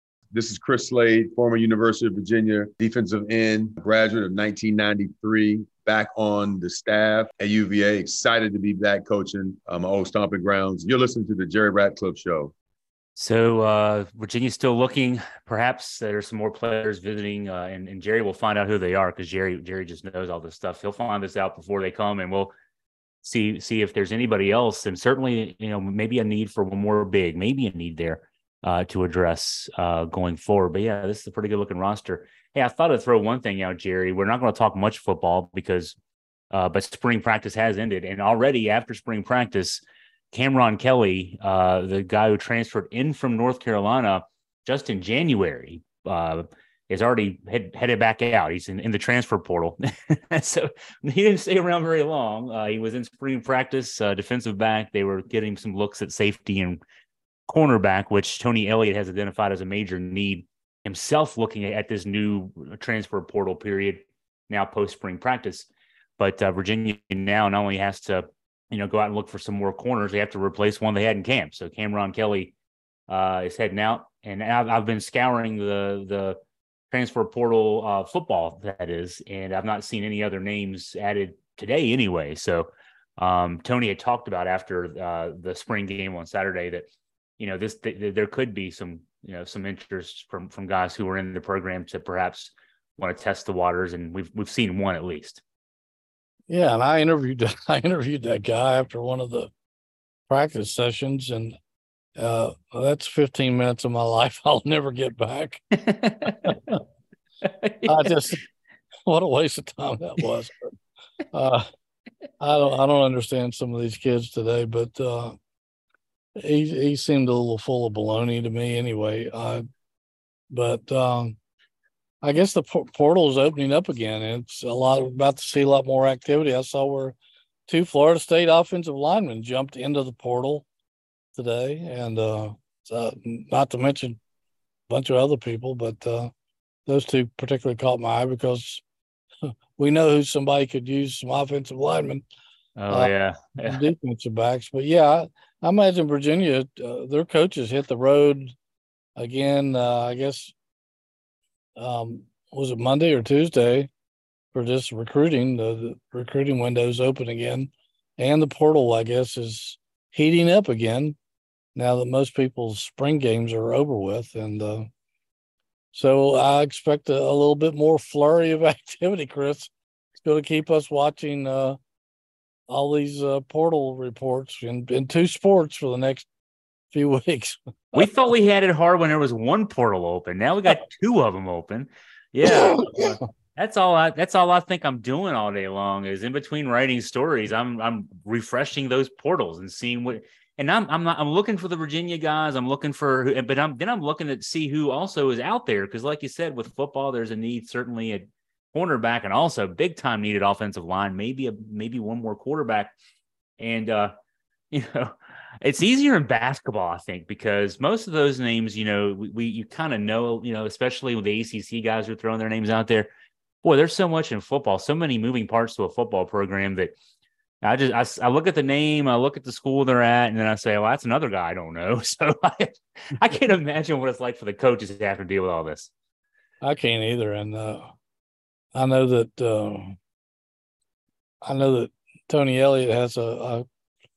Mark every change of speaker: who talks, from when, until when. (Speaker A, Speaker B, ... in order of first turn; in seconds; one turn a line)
Speaker A: 0.3-12.5
Speaker B: 13.2-22.5
Speaker B: 23.2-36.0
Speaker B: 36.5-56.8
Speaker B: 57.5-65.7
Speaker B: 66.2-72.5
Speaker B: 73.1-76.4
Speaker B: 76.9-86.9
Speaker B: 87.4-95.4
Speaker C: 96.5-99.5
Speaker C: 100.3-101.6
Speaker C: 102.2-105.6
Speaker B: 105.8-106.6
Speaker C: 106.2-106.8
Speaker B: 107.4-108.1
Speaker C: 107.8-108.4
Speaker C: 109.1-110.7
Speaker C: 111.3-111.7
Speaker C: 112.4-115.4
Speaker C: 116.4-119.6
Speaker C: 120.5-121.4
Speaker C: 122.2-127.2
Speaker C: 127.7-130.7
Speaker C: 131.3-134.2
Speaker C: 134.9-136.3
Speaker C: 136.9-138.8
Speaker C: 139.4-142.3
Speaker B: 142.8-143.8
Speaker C: 142.9-148.6
Speaker C: 149.2-150.6
Speaker C: 151.8-153.9
Speaker C: 154.5-161.2
Speaker C: 161.8-164.9
Speaker C: 165.9-171.8
Speaker C: 172.7-176.3
Speaker C: 176.9-178.1
Speaker B: 177.9-202.9
Speaker C: 182.6-183.1
Speaker B: 203.6-204.1
Speaker B: 204.7-213.1
Speaker B: 213.6-216.9
Speaker B: 217.6-225.9
Speaker C: 226.6-227.9
Speaker C: 228.7-230.0
Speaker C: 231.4-233.7